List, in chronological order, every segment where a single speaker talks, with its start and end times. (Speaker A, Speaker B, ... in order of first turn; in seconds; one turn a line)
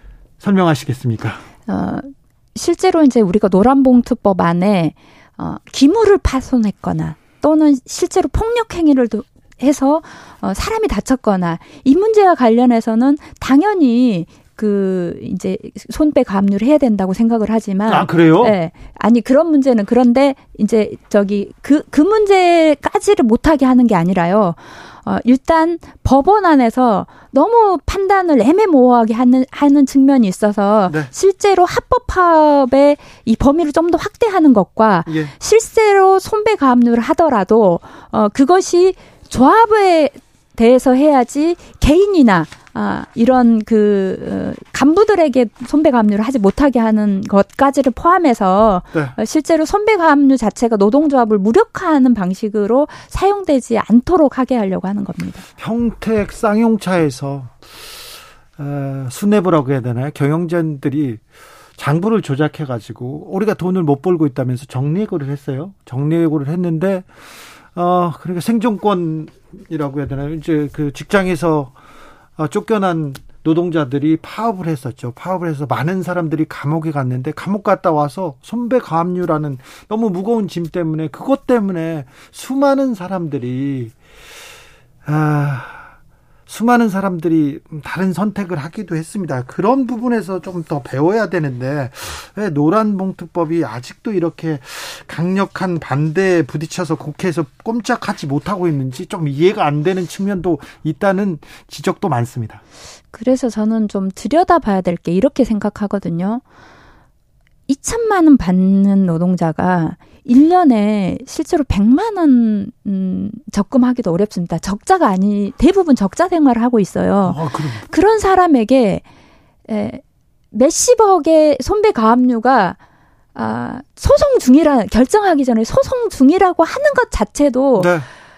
Speaker A: 0.4-1.4
Speaker B: 1.7-55.4
Speaker A: 17.9-18.6
Speaker A: 35.1-35.3
Speaker A: 55.6-57.5
Speaker A: 58.6-61.2
Speaker A: 61.8-67.1
Speaker A: 67.7-71.7
Speaker A: 72.4-83.9
Speaker A: 85.0-85.9
Speaker A: 86.5-102.6
Speaker B: 103.1-106.4
Speaker B: 107.7-119.0
Speaker A: 117.2-117.8
Speaker B: 119.7-122.8
Speaker B: 123.3-127.9
Speaker A: 127.8-128.1